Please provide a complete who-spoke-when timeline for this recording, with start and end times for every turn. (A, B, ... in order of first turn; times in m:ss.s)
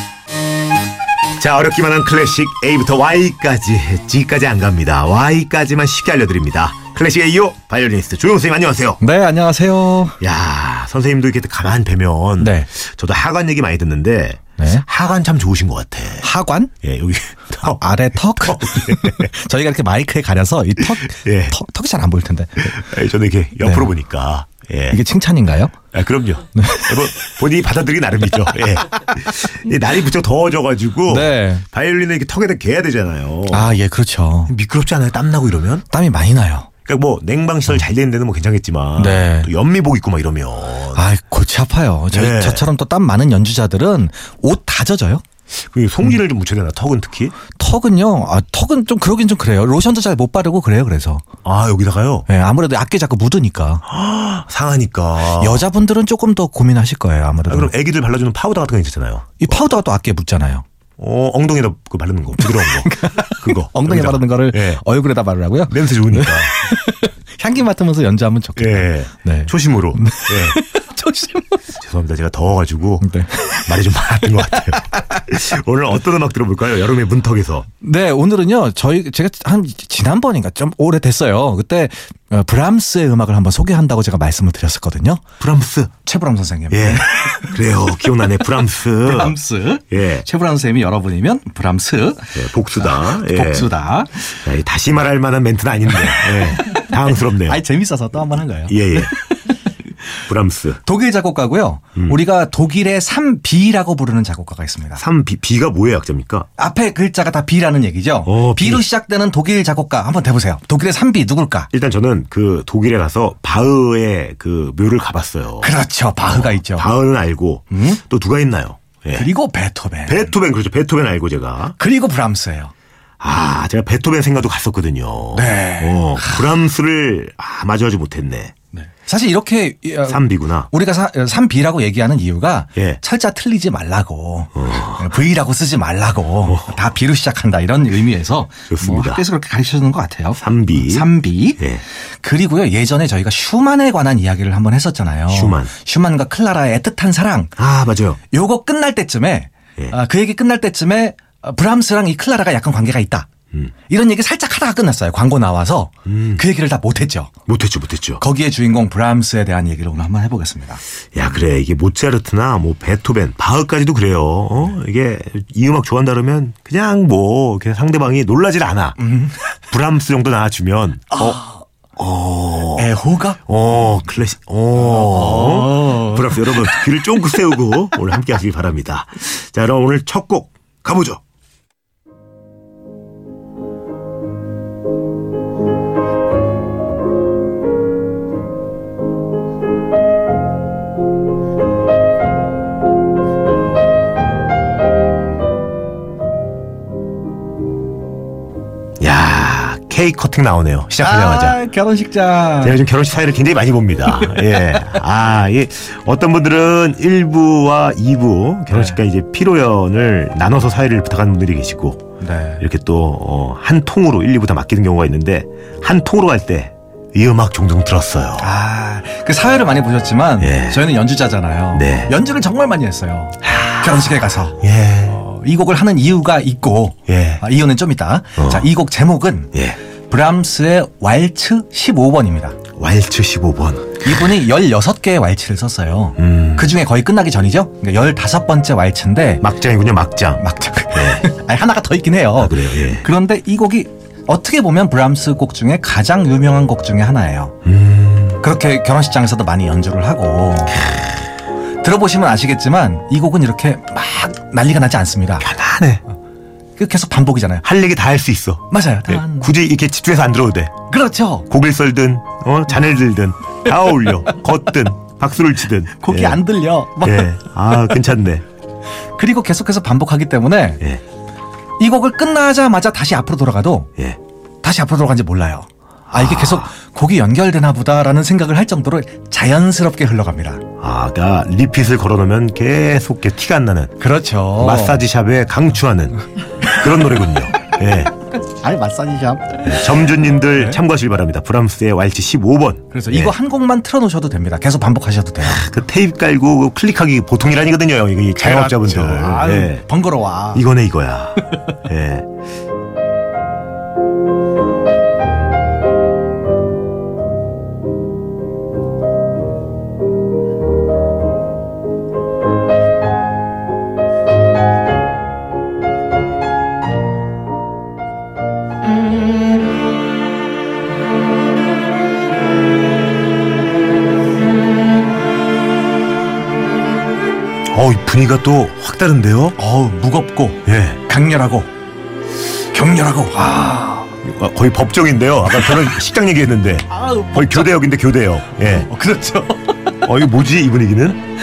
0:01.4-0:09.0 A
0:09.0-0:10.2 B
0:10.2-0:16.3 A
0:12.4-0:12.7 B
0:14.6-0:14.8 B
0:16.2-0:16.7 B
0:16.8-0:19.3 A
0:17.6-0:22.8 B
0:21.1-0:21.6 A
0:22.6-0:25.0 A
0:23.6-0:23.9 B
0:24.9-0:25.7 B
0:25.9-0:33.7 A
0:26.5-0:27.1 B
0:31.1-0:31.6 B
0:33.5-0:34.5 B
0:34.5-0:35.8 A
0:35.9-0:36.7 B
0:36.8-0:41.0 A
0:39.0-0:39.5 B
0:40.9-0:45.2 B
0:42.1-0:42.7 A
0:45.5-0:47.4 A
0:47.6-0:51.2 B
0:51.4-0:52.3 A
0:52.3-0:53.8 B
0:53.8-0:55.7 A
0:55.3-0:57.7 B
0:57.5-0:59.6 A
0:59.4-1:00.6 B
1:01.0-1:04.8 A
1:02.4-1:11.6 B
1:05.7-1:06.5 A
1:08.6-1:10.6 A
1:11.7-1:17.7 A
1:13.0-1:13.7 B
1:17.8-1:25.2 B
1:25.4-1:25.9 A
1:26.0-1:27.5 B
1:26.7-1:29.4 A
1:29.0-1:34.4 B
1:29.9-1:30.2 A
1:32.3-1:33.7 A
1:34.4-1:37.6 A
1:36.2-1:39.3 B
1:38.7-1:39.1 A
1:40.2-1:40.8 A
1:40.8-1:45.0 B
1:45.0-1:46.5 A
1:46.6-1:51.7 B
1:48.2-1:48.8 A
1:51.7-1:55.7 A
1:55.6-1:56.9 B
1:56.2-1:59.3 A
1:57.7-1:58.0 B
1:59.1-2:00.3 B
2:00.1-2:01.8 A
2:01.8-2:02.7 B
2:03.2-2:08.5 A
2:05.3-2:06.4 B
2:08.7-2:27.5 B
2:10.0-2:10.7 A
2:14.6-2:15.0 A
2:16.5-2:16.7 A
2:18.7-2:19.2 A
2:20.4-2:21.8 A
2:25.3-2:25.7 A
2:27.6-2:28.2 A
2:28.3-2:33.3 B
2:33.9-2:37.3 B
2:36.1-2:36.4 A
2:37.5-2:38.2 A
2:38.2-2:40.8 B
2:41.1-2:49.0 A
2:49.0-2:49.4 B
2:49.7-2:51.4 A
2:51.1-2:51.6 B
2:52.0-2:52.9 A
2:52.8-2:53.4 B
2:53.5-3:01.2 A
2:54.8-2:56.9 B
3:19.0-3:21.6 A
3:21.0-3:22.8 B
3:22.6-3:32.1 A
3:28.7-3:29.0 B
3:32.2-3:32.6 B
3:32.6-3:38.5 A
3:38.4-3:49.5 B
3:40.4-3:40.8 A
3:41.7-3:42.1 A
3:43.5-3:43.8 A
3:44.6-3:45.2 A
3:47.1-3:47.4 A
3:48.4-3:48.7 A
3:50.1-3:52.6 B
3:52.8-3:54.0 A
3:54.0-3:59.4 B
3:56.2-3:56.7 A
3:59.4-4:01.2 A
4:00.4-4:07.5 B
4:02.4-4:03.0 A
4:07.6-4:08.4 A
4:08.4-4:11.2 B
4:11.8-4:15.5 B
4:15.4-4:16.0 A
4:16.8-4:17.6 B
4:17.6-4:20.7 A
4:18.7-4:19.5 B
4:20.9-4:21.5 B
4:21.5-4:26.4 A
4:26.0-4:27.3 B
4:27.0-4:28.4 A
4:29.2-4:30.8 B
4:31.8-4:33.9 B
4:34.6-4:40.6 B
4:36.2-4:36.7 A
4:40.8-4:43.9 A
4:44.0-4:45.0 B
4:44.6-4:48.1 A
4:48.3-4:50.8 B
4:49.6-4:53.3 A
4:52.9-4:55.6 B
4:55.4-4:59.8 A
4:58.4-5:00.6 B
5:00.5-5:02.3 A
5:01.5-5:01.7 B
5:27.7-5:29.6 A
5:29.6-5:31.7 B
5:30.6-5:31.0 A
5:32.7-5:34.1 B
5:34.2-5:38.9 A
5:36.9-5:37.7 B
5:38.8-5:39.8 B
5:40.0-5:41.2 A